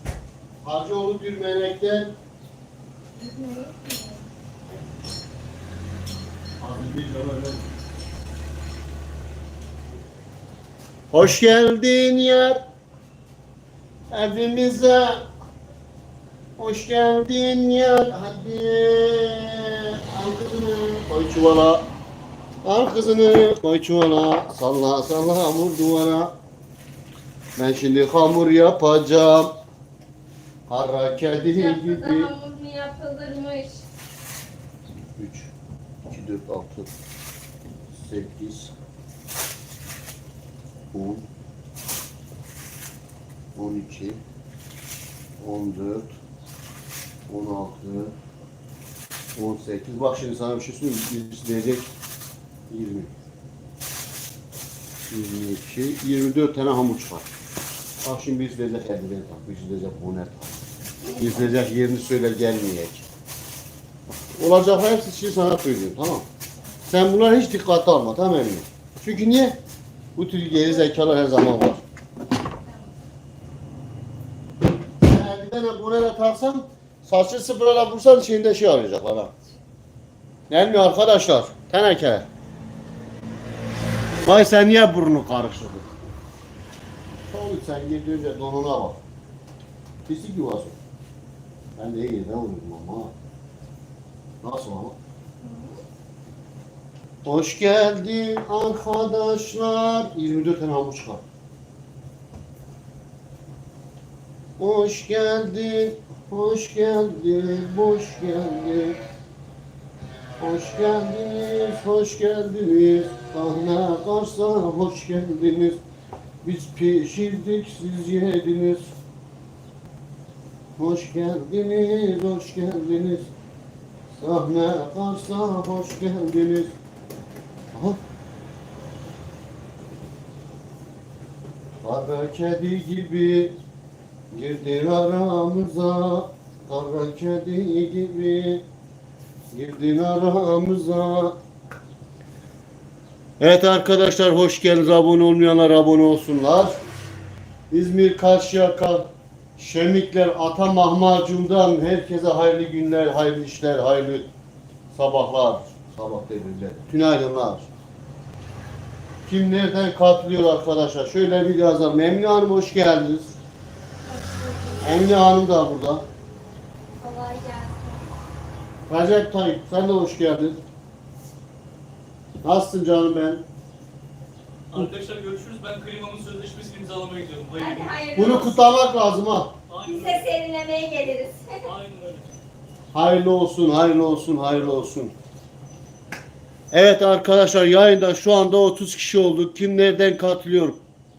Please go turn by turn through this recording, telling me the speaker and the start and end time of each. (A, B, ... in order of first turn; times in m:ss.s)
0:00.6-0:02.1 A
0:03.1-0:04.3 B
0:06.6-0:07.7 A
0:11.1-0:12.6 A
0:14.1-0:15.2 A
0:16.6-0:21.8 A
0:22.6-0:26.3 A
0:27.6-0:29.5 A
0:30.7-0:32.3 A
0:31.5-0:33.9 B
0:35.2-0:35.5 A
0:36.1-0:36.9 A
0:37.9-0:38.7 A
0:40.9-0:41.2 A
0:43.6-0:44.2 A
0:45.4-0:46.1 A
0:47.3-0:48.1 A
0:49.4-0:51.9 A
0:52.7-0:53.1 A
0:55.1-0:57.3 A
0:58.0-1:00.6 A
1:01.0-1:01.6 B
1:01.2-1:03.0 A
1:04.4-1:06.3 A
1:06.9-1:09.6 A
1:10.2-1:11.8 A
1:12.6-1:13.0 B
1:15.0-1:19.3 A
1:20.5-1:22.3 A
1:24.2-1:25.9 A
1:27.3-1:29.0 A
1:30.1-1:30.8 A
1:31.8-1:33.1 A
1:34.4-1:35.0 A
1:35.4-1:35.8 B
1:37.2-1:41.2 A
1:44.6-1:49.0 A
1:50.4-1:55.8 A
1:56.4-1:59.0 A
2:00.8-2:03.3 A
2:04.2-2:06.8 A
2:07.7-2:08.0 A
2:11.8-2:13.6 A
2:14.3-2:18.6 A
2:19.5-2:21.4 A
2:23.4-2:26.8 A
2:27.7-2:34.3 A
2:34.9-2:37.7 A
2:39.2-2:43.4 A
2:44.0-2:45.0 B
2:44.8-2:46.1 A
2:47.0-2:48.1 B
2:48.9-2:50.6 A
2:52.4-2:53.4 A
2:54.7-2:57.9 C
2:57.6-2:58.8 B
2:58.2-2:59.6 A
2:59.7-3:00.0 C
2:59.8-3:01.8 B
3:01.7-3:02.3 C
3:02.9-3:05.2 A
3:06.7-3:10.8 A